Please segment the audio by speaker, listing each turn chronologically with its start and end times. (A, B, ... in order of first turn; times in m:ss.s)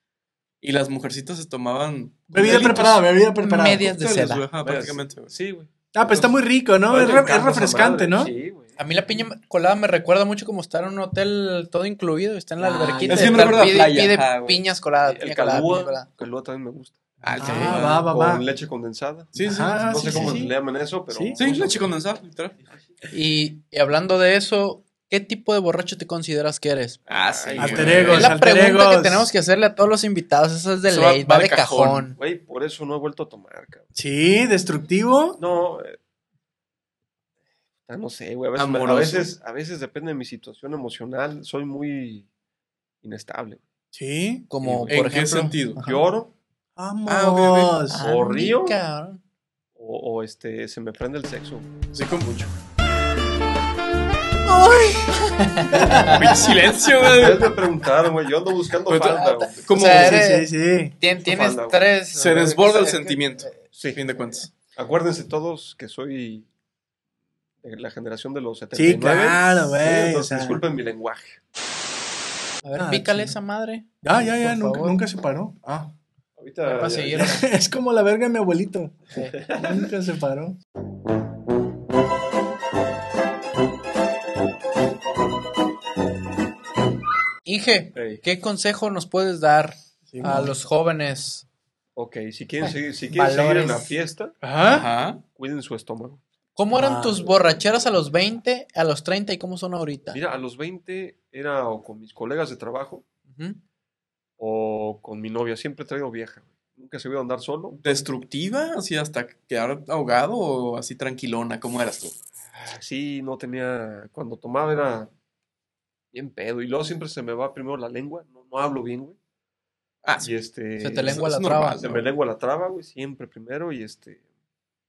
0:00.6-0:03.0 A
0:02.3-0:03.9 B
0:03.4-0:04.4 C
0:03.8-0:05.3 A
0:04.6-0:06.4 D
0:05.9-0:08.3 B
0:06.9-0:08.8 D
0:08.8-0:16.1 C
0:12.6-0:13.7 B
0:13.1-0:14.6 A
0:15.0-0:21.9 D
0:17.2-0:18.0 A
0:17.3-0:18.5 B
0:19.3-0:20.3 A
0:19.4-0:20.5 B
0:21.1-0:21.4 B
0:21.3-0:22.6 A
0:23.1-0:27.0 C
0:27.1-0:28.3 A
0:27.1-0:28.2 D
0:27.6-0:29.3 B
0:28.1-0:32.2 C
0:30.9-0:32.1 A
0:32.2-0:33.8 D
0:33.9-0:35.4 B
0:35.4-0:36.0 D
0:37.9-0:42.3 D
0:38.6-0:39.3 A
0:43.0-0:43.6 D
0:43.9-0:44.4 B
0:44.5-0:46.0 C
0:44.6-0:45.1 D
0:44.9-0:45.8 A
0:45.8-0:46.3 D
0:46.8-0:48.0 B
0:47.1-0:47.8 A
0:47.9-0:49.2 C
0:48.0-0:48.8 D
0:49.8-0:52.5 D
0:51.9-0:52.3 A
0:54.4-0:55.1 B
0:55.1-0:56.3 C
0:55.7-0:56.3 B
0:55.9-0:57.5 A
0:57.0-0:59.6 D
0:58.9-1:00.2 A
0:59.0-1:03.6 C
0:59.8-1:00.9 B
1:01.2-1:03.2 D
1:02.2-1:04.5 A
1:03.7-1:04.0 D
1:04.6-1:06.5 D
1:07.6-1:11.4 D
1:08.7-1:10.6 B
1:12.6-1:15.0 C
1:12.8-1:13.4 B
1:14.0-1:15.9 B
1:16.4-1:17.4 D
1:16.6-1:17.5 C
1:17.1-1:20.6 B
1:19.1-1:19.4 C
1:19.3-1:19.9 D
1:27.4-1:31.4 C
1:27.9-1:28.2 D
1:30.1-1:30.5 B
1:32.0-1:34.3 D
1:32.6-1:33.9 C
1:34.4-1:34.9 B
1:34.7-1:35.2 A
1:35.4-1:36.2 D
1:36.6-1:40.2 C
1:36.7-1:37.2 B
1:40.1-1:43.0 D
1:43.3-1:43.6 C
1:44.4-1:47.8 D
1:47.8-1:52.2 A
1:52.6-1:55.1 D
1:56.1-1:59.2 D
2:00.0-2:00.3 A
2:00.2-2:01.2 D
2:00.8-2:02.0 C
2:01.0-2:02.1 A
2:01.8-2:04.2 D